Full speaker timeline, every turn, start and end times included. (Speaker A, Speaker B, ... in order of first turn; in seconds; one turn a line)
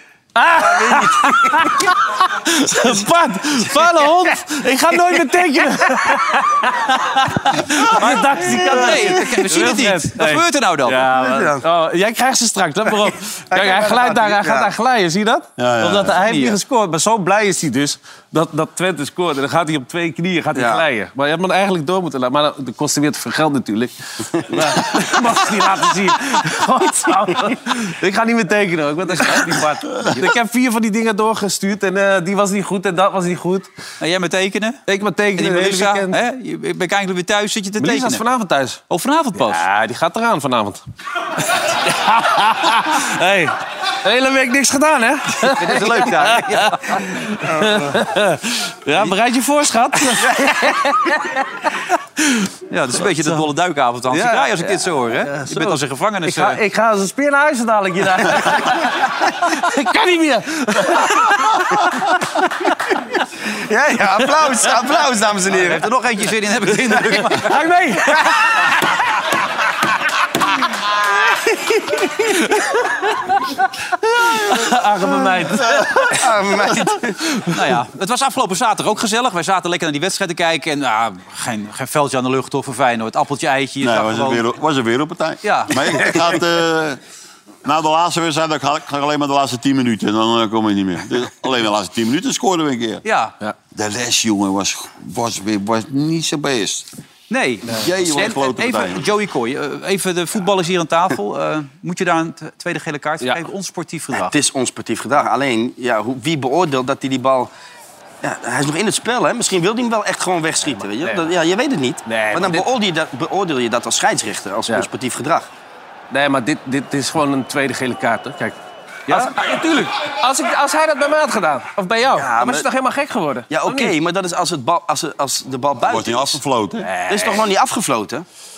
Speaker A: 0.3-33.7
Speaker B: 0.6-1.8
Speaker C: 7.9-11.1
Speaker B: 11.1-11.6
Speaker B: 13.5-14.7
Speaker D: 15.6-16.2
Speaker C: 16.2-16.6
Speaker B: 20.6-20.8
Speaker C: 34.0-34.8
Speaker A: 34.9-36.2
Speaker C: 35.4-38.2
Speaker A: 37.8-38.8
Speaker C: 38.9-39.6
Speaker A: 39.4-40.8
Speaker A: 41.6-52.5
Speaker C: 45.4-47.0
Speaker C: 52.7-56.6
Speaker A: 53.1-53.4
Speaker A: 54.1-62.1
Speaker B: 63.4-65.9
Speaker C: 65.5-67.5
Speaker A: 67.1-68.7
Speaker A: 71.9-73.5
Speaker A: 74.3-76.2
Speaker D: 75.5-75.9
Speaker B: 76.2-77.2
Speaker A: 77.2-77.5
Speaker C: 77.5-84.5
Speaker D: 83.8-87.0
Speaker C: 85.4-86.3
Speaker D: 87.6-93.0
Speaker C: 93.0-93.3
Speaker D: 93.7-96.9
Speaker C: 97.3-104.3
Speaker D: 97.7-99.0
Speaker B: 104.1-107.5
Speaker B: 108.2-115.5
Speaker A: 110.6-111.3
Speaker A: 112.0-112.7
Speaker A: 116.1-118.6
Speaker A: 119.1-123.9
Speaker B: 122.2-122.6
Speaker B: 123.5-126.4
Speaker D: 125.8-126.9
Speaker A: 126.8-127.5
Speaker B: 127.1-128.2